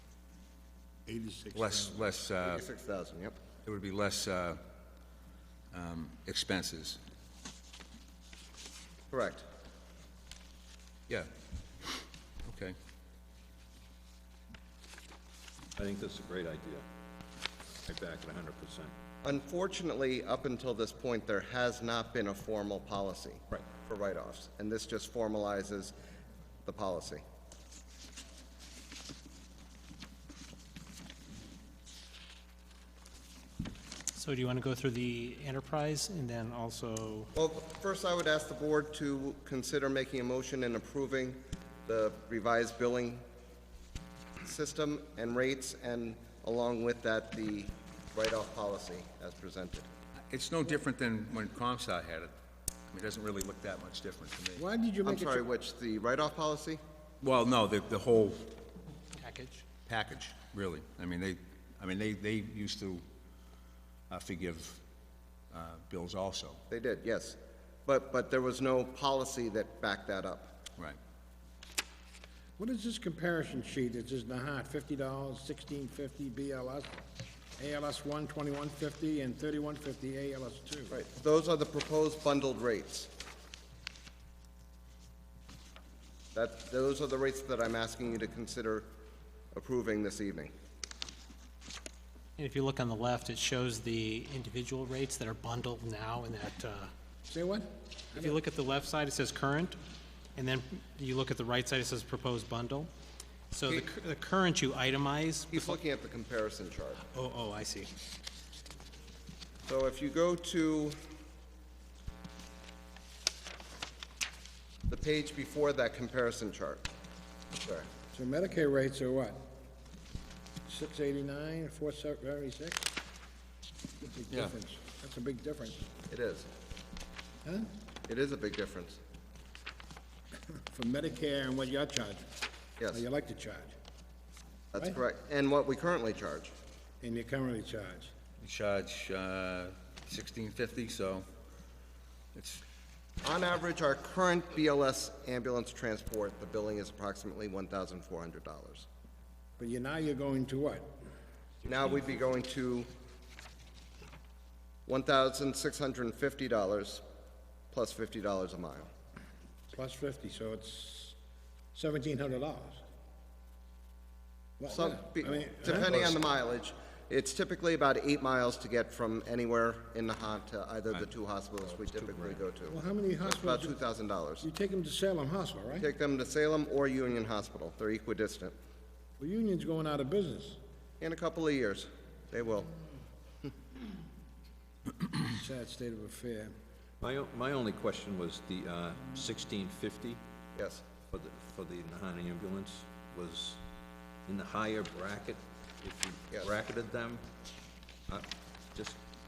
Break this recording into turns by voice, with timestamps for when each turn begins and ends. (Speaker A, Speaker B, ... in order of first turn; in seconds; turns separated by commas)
Speaker A: 1.1-2.1, Speaker B: 1.5-2.6, Speaker C: 2.4-3.3, Speaker B: 3.6-4.6, Speaker B: 5.7-7.0, Speaker C: 9.1-9.4, Speaker B: 12.4-12.8, Speaker D: 15.8-16.8, Speaker D: 17.9-18.9, Speaker C: 19.2-25.9, Speaker C: 26.6-27.2, Speaker E: 34.1-37.3, Speaker C: 37.4-43.2, Speaker C: 44.4-49.9, Speaker B: 50.3-52.3, Speaker B: 52.9-54.6, Speaker A: 54.5-55.5, Speaker C: 55.0-56.8, Speaker B: 57.2-58.6, Speaker E: 59.2-59.6, Speaker B: 59.9-63.1, Speaker B: 64.1-64.8, Speaker B: 65.5-66.6, Speaker C: 66.7-70.6, Speaker A: 72.6-77.0, Speaker A: 77.6-81.0, Speaker C: 80.9-83.1, Speaker C: 86.3-88.9, Speaker C: 89.5-90.5, Speaker E: 92.4-96.9, Speaker A: 97.3-98.4, Speaker E: 98.1-99.8, Speaker E: 100.4-102.9, Speaker E: 103.5-105.8, Speaker C: 105.5-107.0, Speaker E: 107.0-107.9, Speaker C: 109.7-111.0, Speaker C: 114.9-116.9, Speaker C: 117.6-117.9, Speaker A: 118.1-119.5, Speaker A: 120.7-122.9, Speaker A: 124.0-125.9, Speaker C: 126.1-126.5, Speaker A: 127.5-127.7, Speaker C: 128.1-129.0, Speaker A: 130.6-132.3, Speaker A: 132.9-133.8, Speaker C: 134.7-136.5, Speaker A: 137.0-138.1, Speaker B: 138.4-141.3, Speaker B: 142.3-142.6, Speaker C: 143.2-148.9, Speaker A: 149.6-150.9, Speaker C: 151.7-152.9, Speaker C: 154.9-157.0, Speaker C: 157.7-158.9, Speaker A: 159.7-161.2, Speaker A: 161.7-162.8, Speaker A: 164.6-166.1, Speaker C: 164.7-174.5, Speaker D: 171.7-172.4, Speaker A: 172.7-173.8, Speaker A: 174.4-175.9, Speaker C: 175.8-178.6, Speaker A: 179.2-180.6, Speaker C: 181.0-182.7, Speaker A: 185.2-186.5, Speaker D: 187.0-190.2, Speaker C: 190.6-190.9, Speaker D: 191.1-193.6, Speaker D: 194.3-197.2, Speaker D: 198.1-199.0